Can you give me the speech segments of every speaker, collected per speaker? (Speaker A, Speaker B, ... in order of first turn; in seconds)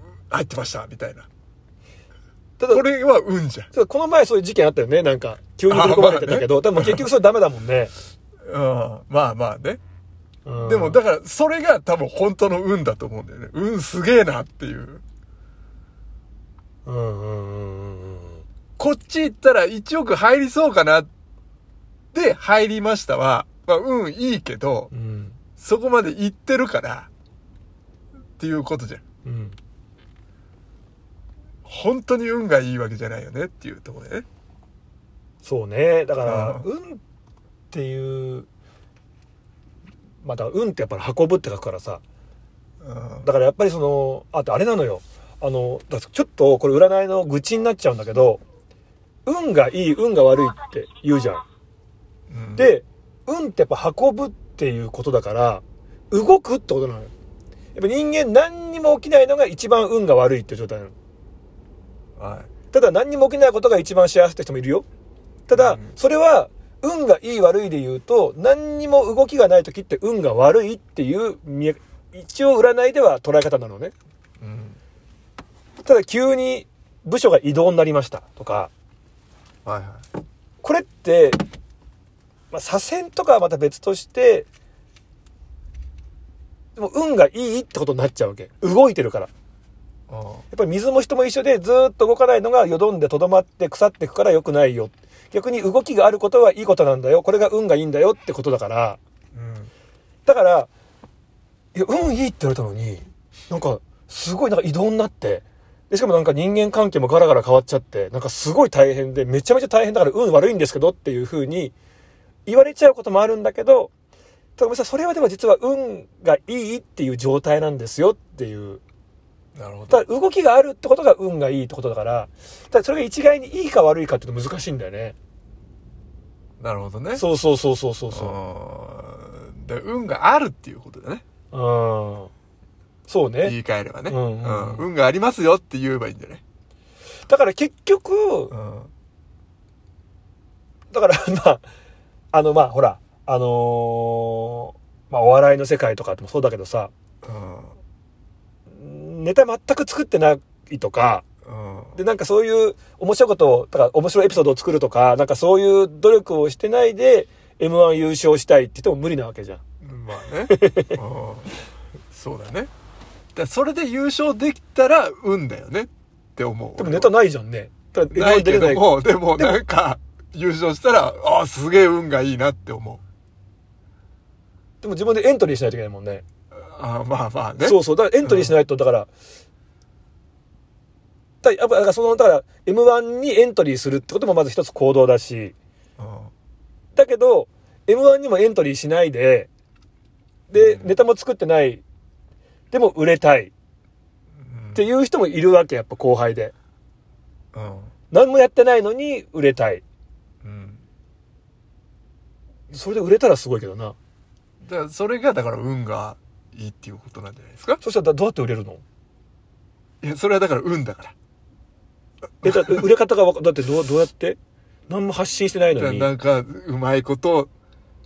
Speaker A: 0.3-1.3, 2.7-3.7, 5.7-7.0, 8.4-9.8, 10.6-15.0, 18.8-21.1, 22.1-24.9, 25.6-27.1, 28.4-29.0, 31.6-34.2, 36.2-36.6, 42.8-43.3, 52.3-52.7, 62.2-62.5, 65.5-65.9, 74.4-74.8, 79.6-80.0, 90.1-90.4, 99.3-99.7, 119.5-120.0, 126.6-127.2, 128.1-131.2, 133.4-136.4, 138.5-138.9, 147.2-147.8, 151.4-152.0, 159.8-161.5, 162.1-162.7, 163.3-167.1, 168.1-173.0, 176.5-178.6, 186.0-186.3, 190.5-190.9, 194.4-194.8, 197.5-197.9, 200.4-200.8, 204.6-207.8, 210.0-211.1, 212.4-212.8, 215.7-217.5
Speaker B: 2.6-2.8, 3.7-7.9, 10.4-11.0, 16.9-18.4, 24.9-25.4, 29.2-29.6, 35.4-37.0, 37.7-38.5, 40.2-42.0, 43.2-48.4, 49.2-51.4, 52.6-57.1, 57.7-60.9, 62.7-64.8, 65.5-73.9, 75.8-78.7, 80.6-81.4, 82.5-84.5, 86.8-89.3, 90.5-99.0, 100.2-100.7, 101.7-111.7, 112.5-113.9, 114.6-118.8, 119.9-125.1, 127.1-128.3, 131.5-132.3, 133.1-133.6, 134.1-134.9, 137.3-138.5, 140.9-141.6, 142.3-146.9, 148.7-151.2, 151.9-159.6, 160.5-161.0, 166.8-169.6, 174.8-176.2, 177.6-179.1, 181.4-185.5, 186.9-189.5, 190.5-191.8, 192.7-193.5, 194.7-196.5, 198.1-199.8, 202.7-203.9, 207.8-208.8, 212.4-214.4, 214.9-216.1